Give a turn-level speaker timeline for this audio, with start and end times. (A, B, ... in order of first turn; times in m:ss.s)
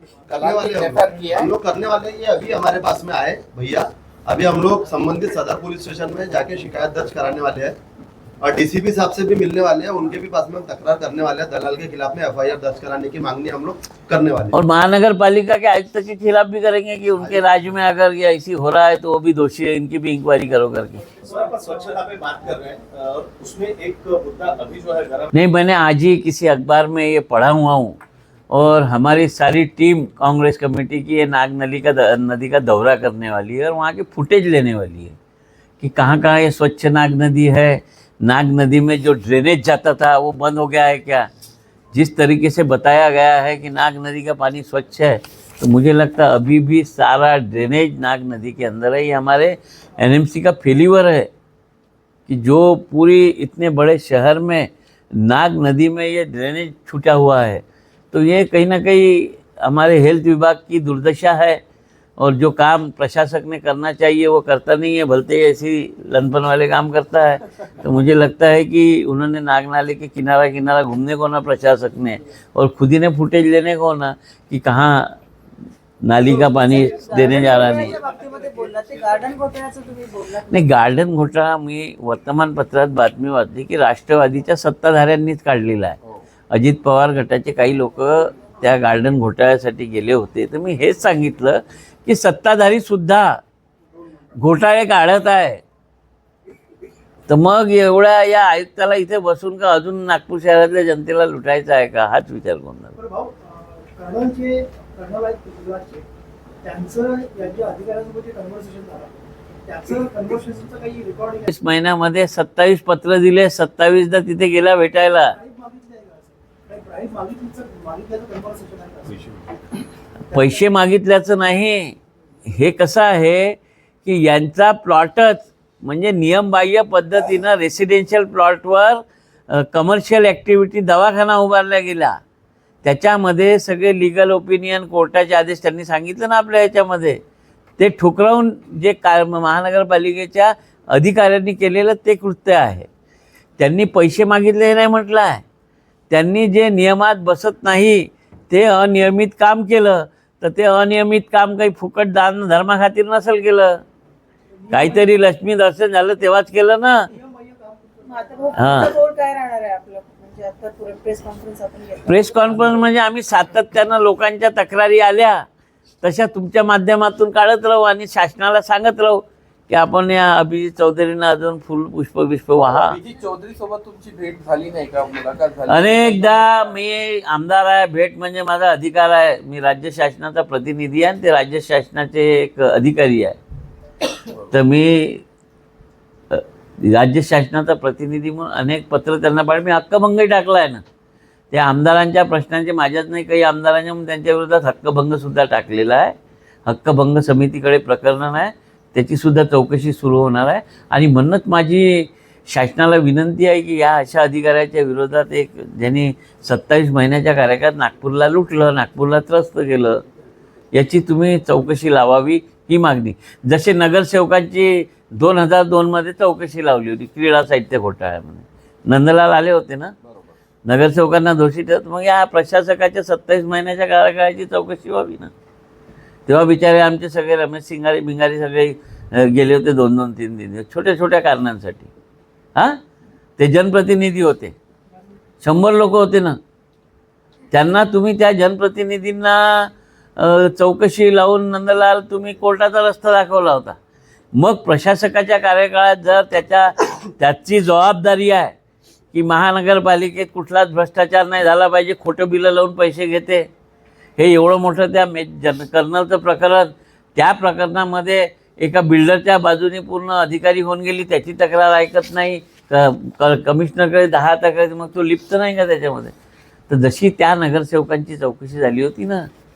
0:00.3-0:07.8 A
0:00.4-0:01.5 B
0:08.4-0:14.6 A
0:14.5-0:21.0 C
0:17.2-0:17.4 A
0:21.2-0:21.9 D
0:21.8-0:23.3 A
0:25.3-0:28.0 C
0:28.5-0:35.2 C
0:35.8-0:41.3 C
0:41.9-0:51.3 C
0:52.3-1:01.6 C
1:02.2-1:15.2 C
1:16.0-1:18.0 C
1:16.3-1:20.7 E
1:16.7-1:18.1 D
1:20.5-1:26.0 C
1:26.5-1:33.4 C
1:34.4-1:35.6 C
1:37.3-1:42.9 C
1:43.0-1:46.0 D
1:46.6-1:51.5 D
1:51.5-1:55.4 C
1:55.2-1:59.3 D
2:00.3-2:02.0 C
2:00.3-2:00.6 D
2:02.5-2:12.2 C
2:12.8-2:17.2 C
2:17.8-2:22.9 C
2:23.6-2:25.4 C
2:26.1-2:33.8 C
2:34.6-2:35.1 D
2:34.7-2:37.1 C
2:37.1-2:38.9 D
2:38.0-2:42.8 E
2:38.6-2:38.9 C
2:42.1-2:45.4 C
2:46.0-2:53.0 C
2:52.6-2:56.7 B
2:55.7-3:03.4 C
3:04.5-3:05.2 C
3:06.3-3:10.8 C
3:11.5-3:16.2 C
3:16.7-3:30.0 C
3:30.7-3:39.9 C
3:40.0-3:40.4 B
3:40.7-3:45.3 C
3:46.3-3:51.9 C
3:52.6-3:52.8 C
3:53.4-3:54.6 C
3:55.4-3:56.4 C
3:57.5-4:03.8 C
4:04.4-4:08.6 C
4:09.1-4:13.5 C
4:14.2-4:26.1 C
4:26.7-4:29.3 C